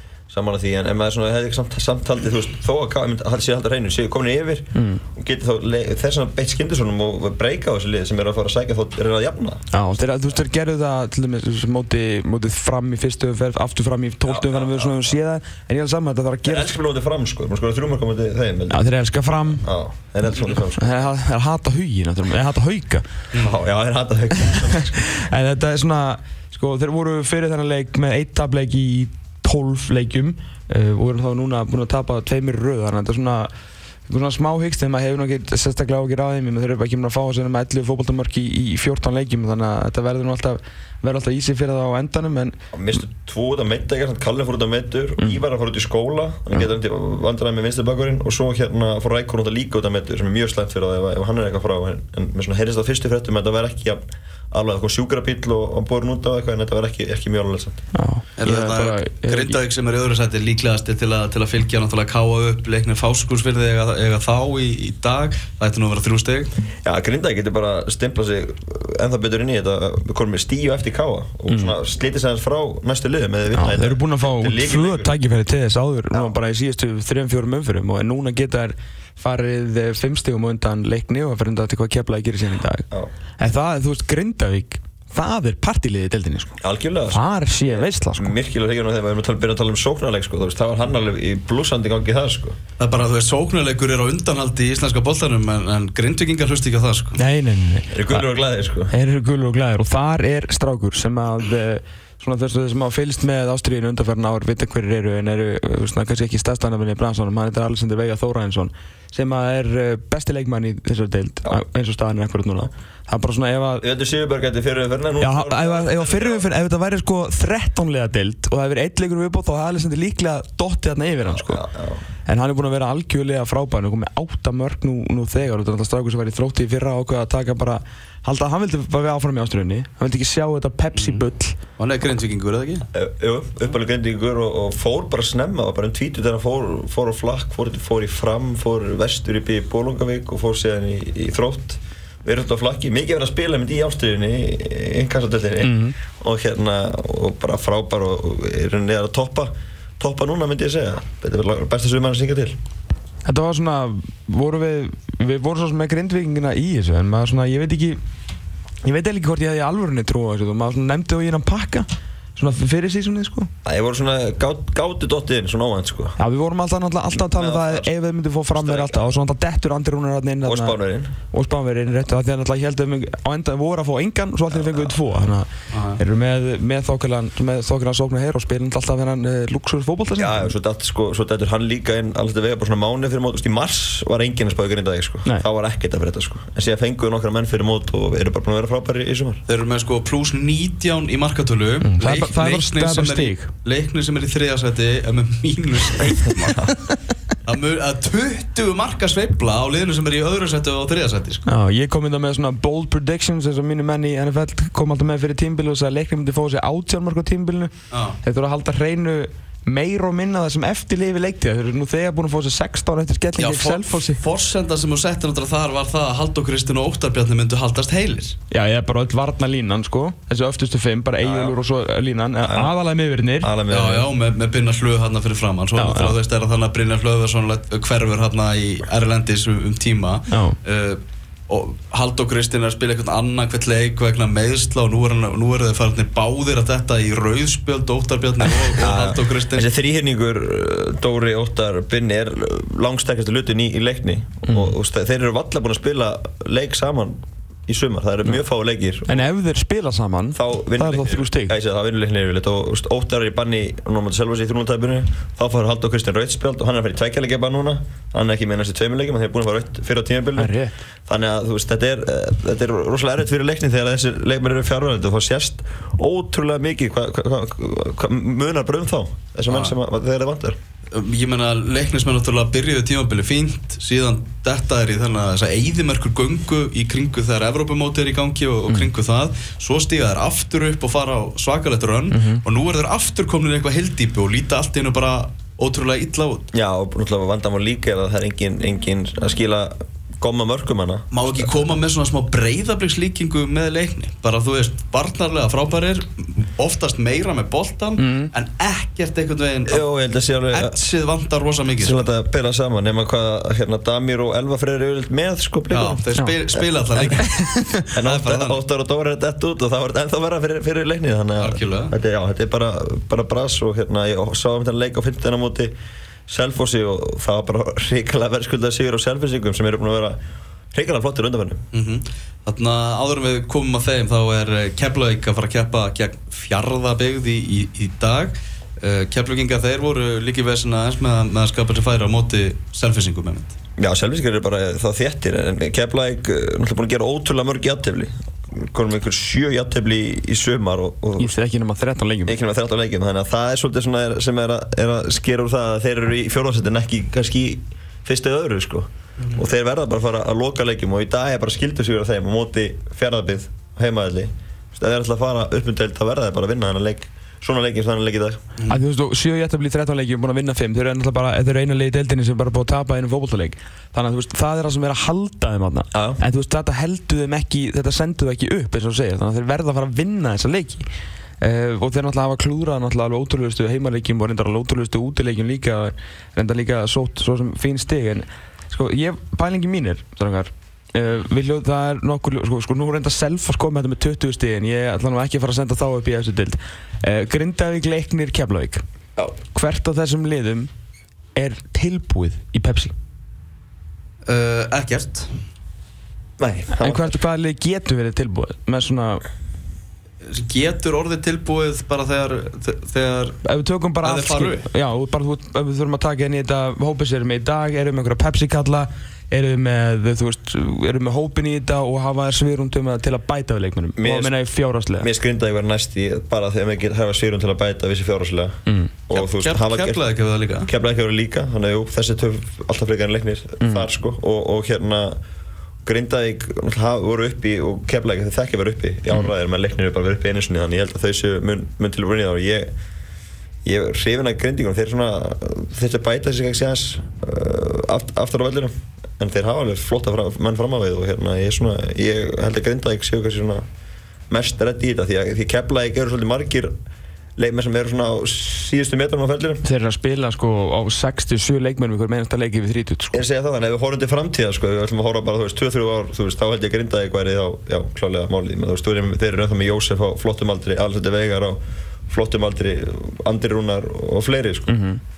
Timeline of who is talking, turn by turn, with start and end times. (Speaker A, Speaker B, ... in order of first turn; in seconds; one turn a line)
Speaker A: 0.3-9.6
Speaker B: 4.7-5.0
Speaker B: 9.7-16.7
Speaker A: 14.2-15.1
Speaker A: 16.4-18.8
Speaker B: 18.7-19.6
Speaker A: 19.5-21.0
Speaker B: 20.8-23.1
Speaker A: 23.4-25.0
Speaker B: 24.4-33.5
Speaker B: 34.1-42.6
Speaker A: 42.7-57.8
Speaker B: 57.9-59.6
Speaker C: 58.4-66.5
Speaker A: 66.8-75.1
Speaker B: 71.5-71.8
Speaker B: 73.5-82.8
Speaker B: 83.4-88.3
Speaker A: 86.6-92.6
Speaker C: 92.8-97.2
Speaker B: 97.2-98.3
Speaker A: 97.9-98.9
Speaker B: 98.9-113.8
Speaker A: 113.8-116.5
Speaker B: 115.2-121.6
Speaker A: 121.2-122.0
Speaker B: 122.2-131.6
Speaker C: 130.9-131.2
Speaker C: 131.8-132.8
Speaker A: 132.9-152.6
Speaker B: 145.6-146.0
Speaker B: 153.2-158.0
Speaker B: 158.8-163.5
Speaker A: 163.6-166.1
Speaker B: 166.2-170.8
Speaker A: 167.3-167.9
Speaker A: 168.5-169.2
Speaker A: 170.4-171.1
Speaker B: 171.3-180.5
Speaker A: 174.5-175.2
Speaker C: 175.7-176.0
Speaker A: 180.2-189.4
Speaker C: 189.5-196.7
Speaker B: 191.8-193.5
Speaker C: 197.4-201.4
Speaker B: 201.4-214.2
Speaker C: 207.9-208.2
Speaker C: 213.4-218.3
Speaker B: 218.5-223.5
Speaker A: 221.2-221.6
Speaker A: 222.4-222.7
Speaker A: 223.4-224.1
Speaker C: 223.7-239.7
Speaker B: 225.7-226.2
Speaker B: 230.3-230.6
Speaker A: 238.7-249.3
Speaker B: 244.5-244.8
Speaker B: 249.1-251.6
Speaker A: 250.3-260.5
Speaker B: 260.4-260.8
Speaker A: 261.1-270.6
Speaker C: 269.5-269.7
Speaker C: 270.9-286.4
Speaker B: 282.1-282.4
Speaker A: 286.5-291.5
Speaker C: 291.1-299.8
Speaker B: 298.0-298.3
Speaker A: 299.7-300.8
Speaker C: 300.5-302.0
Speaker A: 301.8-306.1
Speaker C: 305.7-307.3
Speaker B: 307.0-307.9
Speaker C: 307.9-308.6
Speaker A: 307.9-315.7
Speaker C: 311.4-311.9
Speaker A: 316.3-320.2
Speaker A: 320.7-321.6
Speaker C: 321.7-333.5
Speaker A: 333.8-341.3
Speaker B: 341.2-342.4
Speaker A: 342.2-358.4
Speaker B: 358.7-370.8
Speaker A: 365.9-366.2
Speaker B: 371.4-388.8
Speaker B: 389.5-390.7
Speaker B: 391.3-392.9
Speaker C: 394.2-395.3
Speaker A: 396.4-397.2
Speaker B: 396.7-399.2
Speaker C: 400.2-403.4
Speaker B: 403.4-415.1
Speaker C: 404.0-404.7
Speaker A: 414.0-414.4
Speaker A: 415.0-420.0
Speaker B: 418.6-418.9
Speaker C: 419.1-420.7
Speaker A: 420.6-425.2
Speaker B: 423.6-423.9
Speaker A: 425.8-432.7
Speaker A: 433.6-443.6
Speaker A: 444.3-446.7
Speaker A: 447.4-449.6
Speaker B: 449.6-453.2
Speaker A: 453.1-464.7
Speaker B: 464.7-465.0